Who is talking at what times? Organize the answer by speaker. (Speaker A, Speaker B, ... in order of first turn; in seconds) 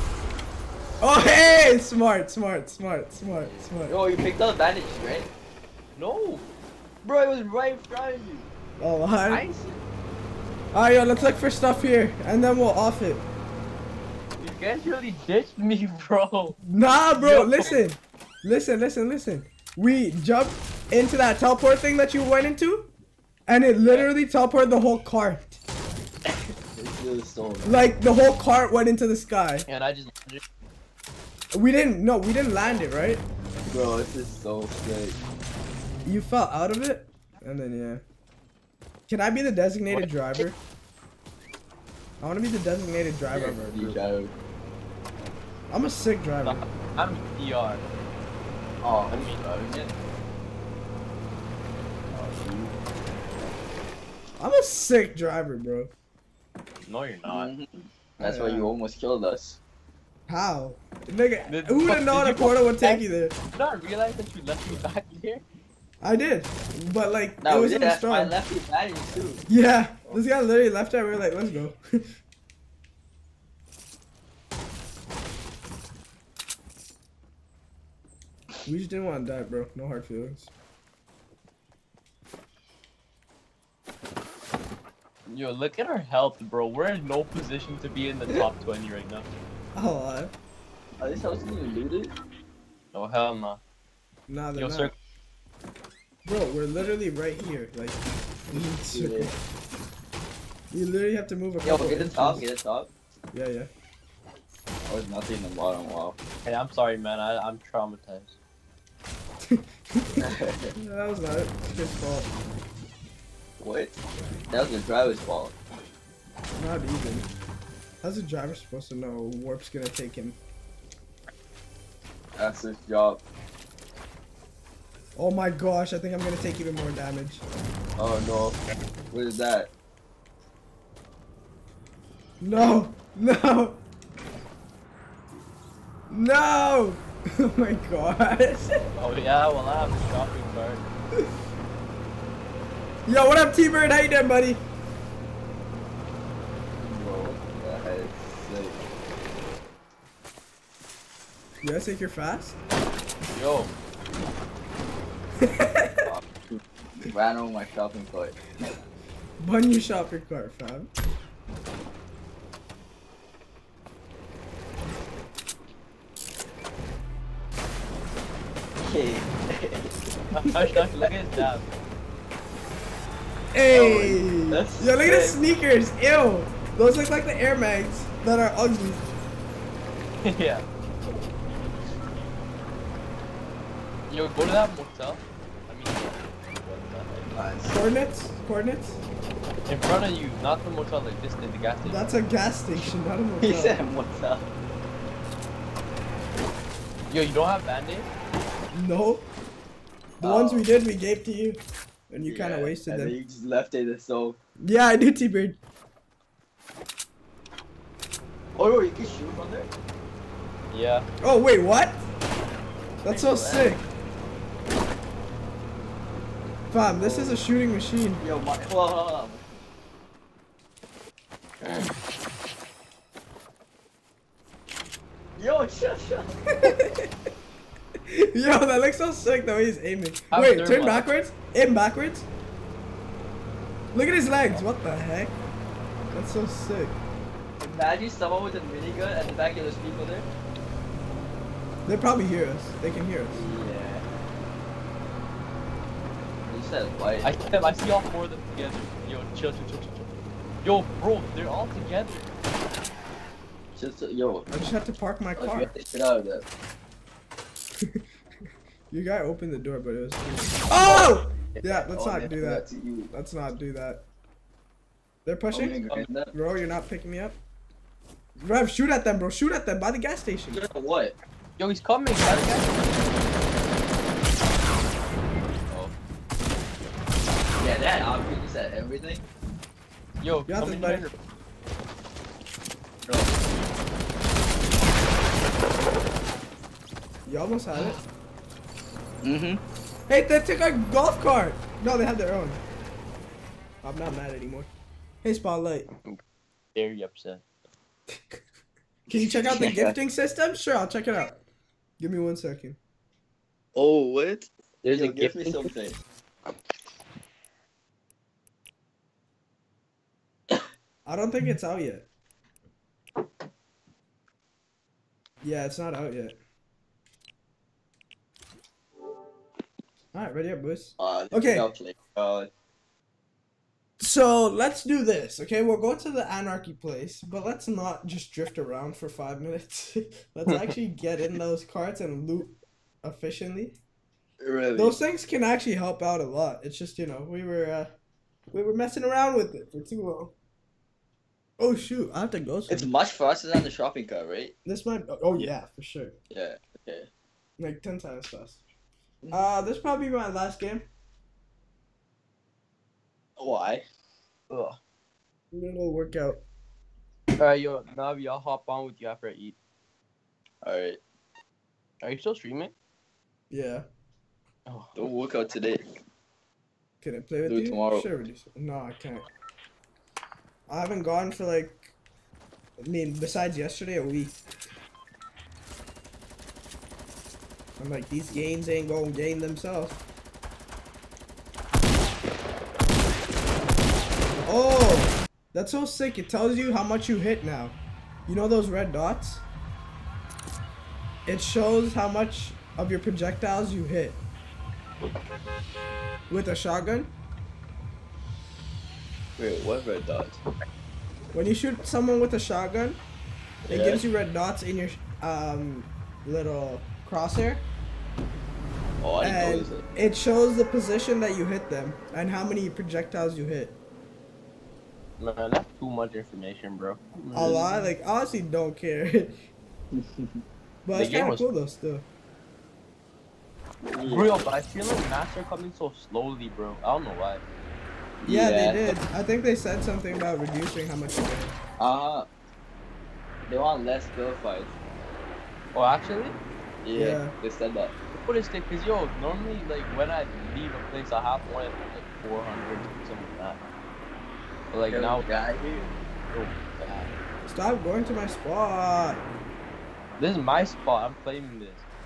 Speaker A: 1.0-3.9, 8.8-9.4, 10.7-13.2, 16.6-22.9, 23.5-25.6, 27.6-29.7, 31.5-33.2, 36.0-38.0, 39.1-40.6, 42.2-44.0, 45.7-46.6, 54.4-55.9, 58.2-58.7, 60.3-63.3, 66.0-68.3, 69.5-72.1, 78.7-80.5, 89.7-90.3, 94.3-94.9, 96.2-99.3, 100.7-102.5, 103.3-103.7, 109.4-112.3, 116.6-117.3, 118.0-120.4, 125.1-127.4, 132.4-133.8, 136.1-138.9, 143.1-144.6, 151.6-152.6, 155.4-156.1, 159.4-160.9, 173.5-179.0, 187.6-189.0, 191.8-193.8, 198.7-199.3, 200.2-203.1, 204.6-205.6, 211.2-212.0, 213.0-213.8, 216.7-218.2, 226.5-227.1, 228.1-232.3, 233.9-235.4, 236.1-237.0, 241.8-243.4, 254.5-255.7, 258.9-264.0, 265.2-265.8, 266.3-267.4, 268.4-270.6, 280.5-281.1, 287.2-288.0, 290.1-292.6, 293.8-294.7, 295.2-295.9, 298.1-298.4, 299.1-301.4, 302.0-302.8, 311.1-312.1, 315.4-316.3, 320.1-321.7, 324.0-333.8, 334.7-337.9, 338.5-340.3, 341.6-342.9, 344.6-346.1, 347.6-348.7, 349.3-350.9, 355.5-356.4, 363.5-363.9, 367.0-369.3, 370.7-371.9, 372.8-374.4, 377.8-380.0, 384.4-387.8, 388.3-389.4, 391.2-394.2, 396.3-397.1, 401.3-403.0, 403.7-407.6, 409.2-413.8, 417.3-419.4, 420.8-422.1, 428.2-431.6, 436.9-437.3, 447.4-449.2
Speaker B: 3.3-5.3, 7.0-8.5, 26.7-27.7, 33.7-35.2, 43.3-44.3, 48.8-49.9, 52.1-52.7, 57.3-59.6, 67.4-69.5, 91.0-92.1, 98.5-99.3, 101.6-102.9, 104.8-106.2, 110.2-110.7, 113.6-114.0, 114.5-115.5, 122.3-123.2, 128.0-128.6, 129.1-129.7, 146.7-148.8, 156.0-158.6, 168.8-169.9, 173.7-175.2, 187.3-187.8, 193.4-194.5, 200.2-200.7, 202.2-204.4, 208.6-209.7, 213.0-213.8, 217.0-217.4, 218.2-219.4, 225.4-226.3, 237.6-240.3, 243.3-244.0, 246.4-247.3, 253.7-254.5, 255.4-256.4, 260.8-261.1, 261.9-263.1, 265.5-266.3, 270.5-271.2, 277.6-279.2, 289.2-289.6, 299.1-299.9, 303.7-306.0, 321.0-322.5, 334.4-335.0, 342.7-344.5, 346.3-347.1, 353.4-353.8, 360.6-361.0, 364.9-365.9, 367.4-368.1, 399.4-400.4, 403.6-404.0, 409.0-409.8, 419.9-420.4, 423.9-424.4, 428.2-428.9, 431.8-432.3, 433.5-434.7, 436.8-437.9, 444.9-445.9
Speaker C: 6.0-6.5, 9.3-9.8, 14.4-16.6, 17.1-17.8, 23.8-24.1, 29.7-30.4, 46.4-47.9, 49.1-49.4, 56.8-57.5, 61.5-65.4, 85.3-89.3, 92.9-93.6, 94.5-94.9, 106.4-108.4, 139.0-140.9, 153.3-153.7, 170.3-171.7, 175.0-175.3, 180.2-180.7, 184.1-187.3, 189.7-192.1, 197.1-198.1, 210.7-211.1, 221.6-221.9, 230.3-231.1, 247.2-250.0, 250.6-252.3, 271.6-272.8, 280.2-281.1, 296.7-297.4, 304.8-305.7, 354.5-354.8, 357.4-359.6, 362.0-362.7, 364.7-365.1, 415.2-417.8, 420.9-421.5, 424.0-427.4, 435.7-436.4, 438.1-443.6, 444.7-445.2, 446.3-447.1, 450.2-451.8